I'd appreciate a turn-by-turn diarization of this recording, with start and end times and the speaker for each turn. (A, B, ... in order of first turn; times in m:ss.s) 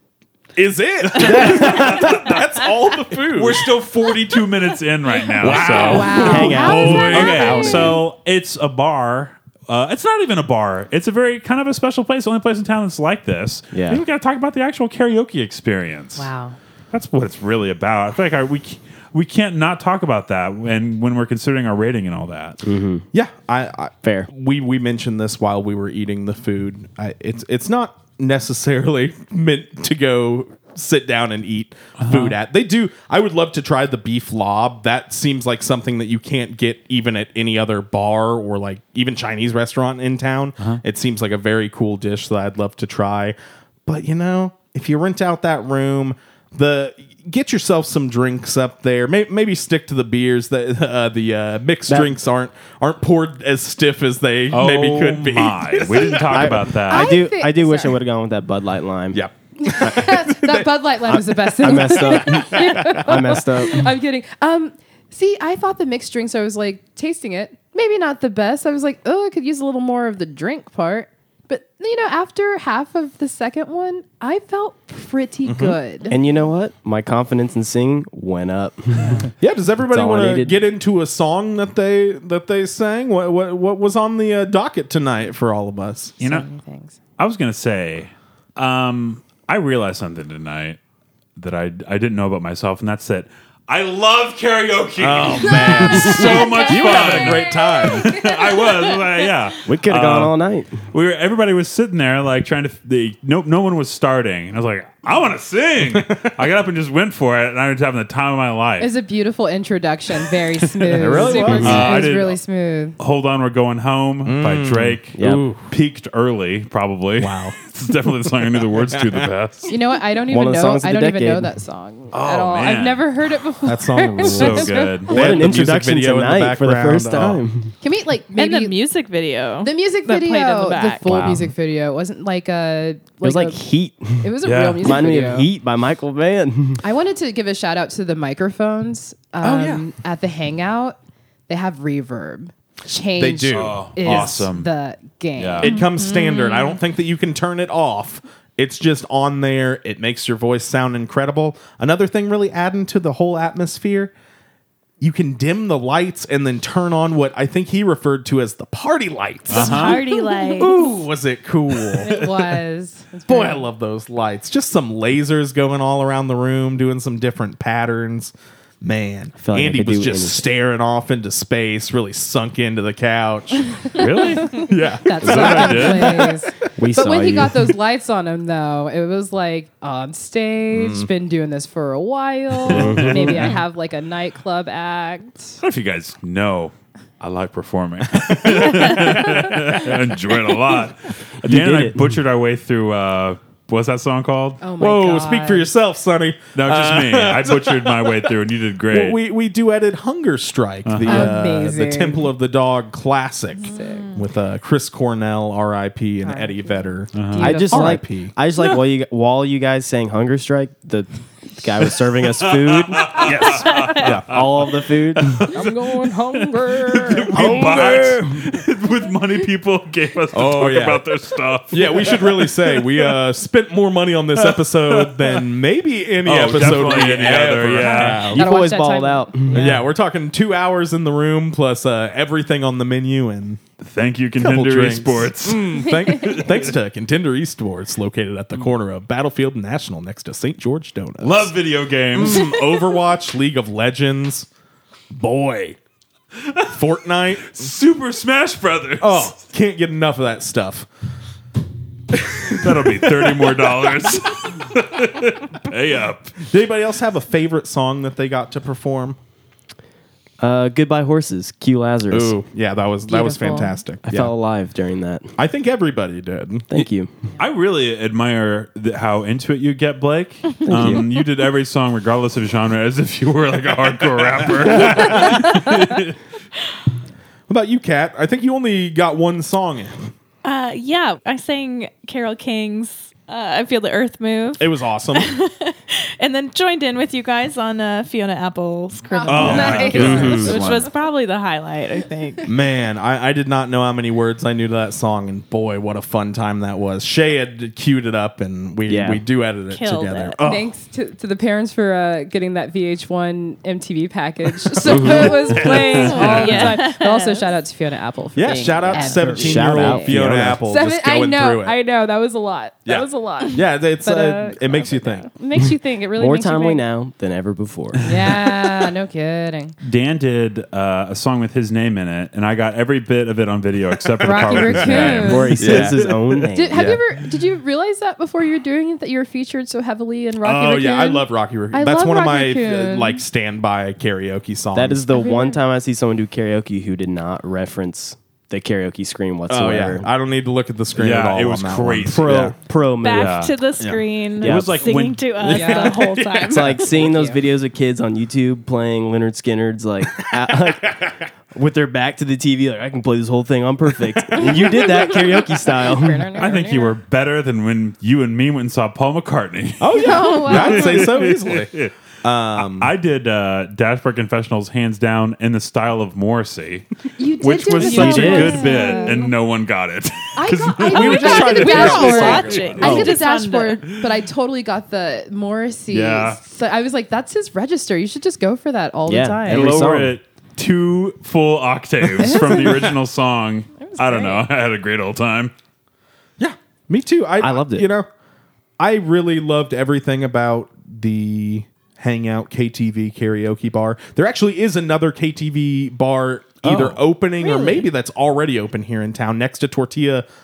0:00.6-0:03.7 A
0:01.2-0:02.2 B
0:01.2-0:02.4 C
0:03.3-0:16.3 C
0:05.4-0:07.6 A
0:05.5-0:08.0 D
0:05.9-0:08.0 B
0:13.7-0:14.0 B
0:16.2-0:16.6 D
0:16.9-0:22.6 C
0:22.6-0:23.1 B
0:23.1-0:56.6 A
0:24.0-0:24.3 B
0:32.0-0:32.4 C
0:51.9-0:52.2 B
0:54.5-0:57.2 C
0:56.3-0:59.2 B
0:56.9-0:58.0 D
0:59.1-1:03.2 A
0:59.6-1:16.2 D
1:01.1-1:03.9 B
1:15.4-1:15.8 A
1:16.1-1:19.3 B
1:19.4-1:26.2 A
1:19.9-1:20.6 B
1:26.2-1:26.5 C
1:26.2-1:27.0 D
1:27.2-1:30.8 C
1:31.4-1:40.4 C
1:35.0-1:38.2 A
1:35.6-1:38.7 D
1:39.7-1:40.8 B
1:40.9-1:48.9 C
1:45.9-1:46.3 A
1:48.8-1:53.0 D
1:50.6-1:52.4 C
1:51.0-1:52.0 A
1:51.0-1:52.0 B
1:53.0-1:59.7 C
1:54.2-1:55.6 A
1:55.2-1:55.4 B
1:57.2-1:57.6 A
1:58.8-1:59.3 A
1:59.7-2:05.1 D
2:00.3-2:01.5 B
2:02.1-2:03.1 C
2:03.6-2:07.4 A
2:04.2-2:05.1 C
2:05.1-2:07.7 B
2:07.8-2:08.8 D
2:08.4-2:11.3 E
2:09.6-2:13.6 D
2:11.1-2:11.4 C
2:13.2-2:16.8 B
2:14.2-2:15.5 D
2:14.4-2:14.9 C
2:16.8-2:21.0 D
2:19.4-2:19.9 A
2:21.5-2:25.8 D
2:23.2-2:24.4 A
2:23.5-2:24.7 C
2:25.4-2:25.7 C
2:25.6-2:34.1 A
2:25.6-2:26.8 E
2:35.0-2:42.1 A
2:39.5-2:40.0 C
2:39.5-2:40.8 E
2:42.0-2:43.7 D
2:43.3-2:54.0 A
2:49.4-2:50.4 B
2:54.0-2:54.7 C
2:54.4-3:05.6 D
2:54.5-2:56.4 A
2:55.2-2:56.3 C
2:56.8-2:57.7 B
3:00.7-3:01.1 A
3:02.7-3:03.5 B
3:02.7-3:03.6 C
3:05.6-3:14.6 C
3:08.4-3:09.1 A
3:11.4-3:12.2 B
3:14.6-3:15.7 D
3:14.8-3:18.3 A
3:16.6-3:19.2 C
3:18.9-3:28.3 A
3:20.9-3:21.4 C
3:21.0-3:22.3 D
3:23.6-3:24.1 D
3:23.7-3:24.1 E
3:26.2-3:28.0 D
3:27.2-3:27.5 C
3:27.4-3:33.3 B
3:32.5-3:42.8 C
3:33.2-3:34.4 A
3:34.0-3:35.5 B
3:35.5-3:37.6 D
3:37.3-3:38.2 A
3:37.4-3:38.4 B
3:40.3-3:41.1 A
3:41.7-3:48.5 A
3:44.4-3:45.4 C
3:46.2-3:48.4 C
3:48.3-3:49.8 B
3:48.3-3:49.8 D
3:49.5-3:53.6 A
3:53.8-3:56.7 C
3:54.4-4:01.5 A
4:01.2-4:02.5 C
4:02.1-4:04.5 A
4:05.1-4:05.8 A
4:06.4-4:06.8 C
4:06.7-4:07.7 A
4:07.4-4:09.4 C
4:09.0-4:10.9 A
4:12.1-4:13.7 A
4:12.6-4:16.4 C
4:16.4-4:19.2 A
4:20.4-4:22.4 B
4:22.1-4:24.3 A
4:23.1-4:23.8 D
4:24.0-4:25.3 B
4:25.4-4:26.8 A
4:26.7-4:27.1 B
4:27.4-4:36.2 C
4:30.6-4:31.1 B
4:34.3-4:35.5 A
4:37.5-4:40.1 A
4:40.4-4:52.5 E
4:44.6-4:45.3 A
4:49.1-4:50.6 D
4:49.3-4:50.4 A
4:49.3-4:50.9 C
4:50.0-4:50.6 B
4:52.5-5:00.7 A
4:58.9-4:59.2 B
4:59.7-5:00.4 E
5:00.4-5:16.8 D
5:04.8-5:06.3 A
5:04.9-5:05.5 B
5:05.6-5:06.6 C
5:05.9-5:07.5 E
5:08.4-5:11.8 A
5:08.9-5:10.6 B
5:12.9-5:15.3 A
5:16.2-5:18.0 B
5:18.0-5:19.8 D
5:19.8-5:26.1 C
5:24.2-5:25.8 D
5:24.2-5:26.1 A
5:25.2-5:27.0 B
5:26.5-5:33.2 D
5:30.4-5:35.0 A
5:34.7-5:40.1 B
5:35.1-5:35.6 D
5:39.5-5:42.6 A
5:41.0-5:42.5 C
5:42.1-5:43.5 B
5:43.0-5:46.9 E
5:43.1-5:43.5 C
5:44.4-5:45.0 B
5:44.4-5:45.8 C
5:45.5-5:46.0 D
5:46.0-5:46.6 A
5:46.5-5:56.3 B
5:46.9-5:47.4 D
5:50.2-5:51.1 A
5:54.4-5:57.0 D
5:56.4-6:01.9 C
5:59.8-6:02.9 A
5:59.9-6:01.2 D
6:02.6-6:06.9 C
6:07.2-6:09.3 D
6:07.4-6:13.0 C
6:07.8-6:08.8 B
6:10.4-6:19.8 D
6:10.8-6:13.2 A
6:11.0-6:13.8 E
6:15.9-6:16.4 C
6:19.1-6:20.2 B
6:19.5-6:25.5 C
6:22.2-6:22.9 D
6:23.8-6:24.5 D
6:26.4-6:28.1 A
6:27.4-6:27.9 B
6:28.8-6:40.3 A
6:36.6-6:37.0 B